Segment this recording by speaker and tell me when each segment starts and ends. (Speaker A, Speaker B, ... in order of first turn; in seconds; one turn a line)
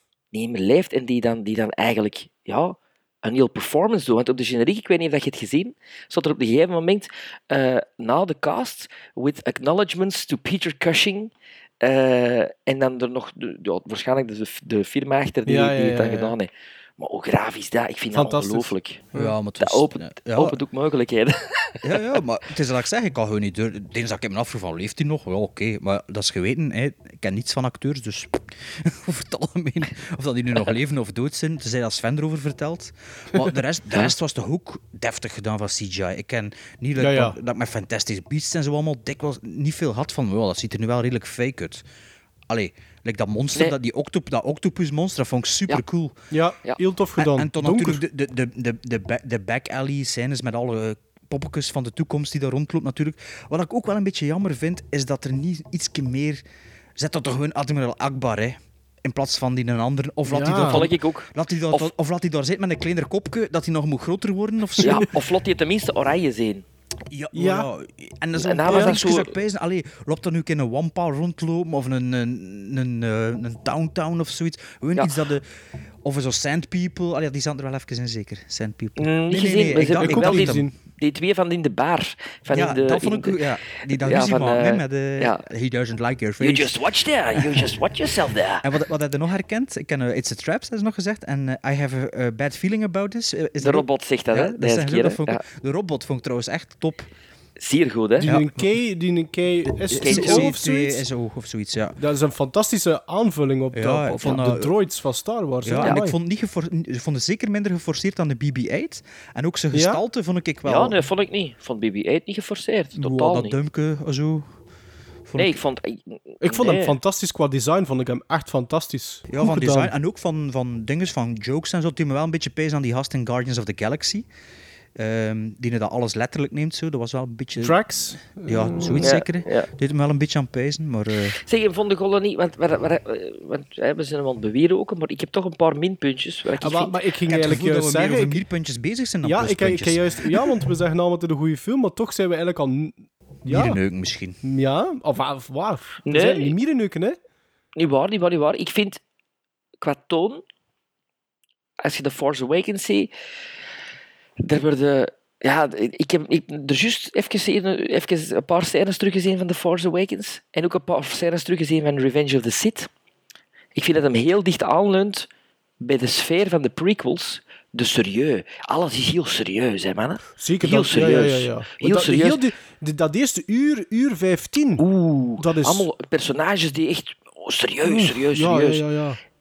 Speaker A: 0.3-19.1
Speaker B: 15.4-16.3
Speaker B: 18.1-19.3
Speaker C: 19.1-20.6
Speaker A: 19.6-22.2
Speaker C: 21.8-41.8
Speaker B: 37.0-37.4
Speaker C: 42.5-46.1
Speaker B: 46.3-48.0
Speaker C: 47.2-56.4
Speaker C: 57.0-65.1
Speaker B: 60.3-60.9
Speaker A: 60.6-61.9
Speaker A: 64.8-66.6
Speaker C: 67.1-75.5
Speaker B: 67.3-67.7
Speaker A: 68.4-69.3
Speaker B: 68.7-69.0
Speaker A: 75.0-75.2
Speaker C: 76.0-80.7
Speaker A: 79.0-85.4
Speaker B: 80.0-80.7
Speaker C: 82.5-86.7
Speaker A: 86.4-88.7
Speaker C: 88.6-97.1
Speaker A: 93.6-95.4
Speaker A: 97.6-98.3
Speaker B: 98.2-101.0
Speaker C: 98.2-98.6
Speaker C: 99.9-102.0
Speaker A: 99.9-100.5
Speaker B: 102.0-106.2
Speaker C: 103.7-104.7
Speaker C: 105.6-111.0
Speaker B: 109.7-110.0
Speaker A: 110.6-113.5
Speaker C: 113.0-114.4
Speaker C: 115.3-115.5
Speaker A: 115.4-117.0
Speaker B: 116.4-119.9
Speaker C: 119.3-124.2
Speaker C: 125.0-127.8
Speaker B: 127.6-129.1
Speaker C: 128.3-131.4
Speaker A: 129.0-129.7
Speaker A: 131.4-137.0
Speaker B: 136.6-138.4
Speaker C: 137.3-140.5
Speaker B: 139.2-142.9
Speaker C: 143.4-144.4
Speaker B: 143.5-143.8
Speaker B: 144.4-147.2
Speaker A: 146.1-146.5
Speaker A: 147.8-149.0
Speaker A: 149.8-150.4
Speaker A: 151.8-153.1
Speaker A: 154.4-162.9
Speaker A: 163.7-165.3
Speaker A: 165.8-172.4
Speaker B: 170.4-174.8
Speaker A: 174.8-178.8
Speaker B: 175.4-175.9
Speaker B: 177.8-179.2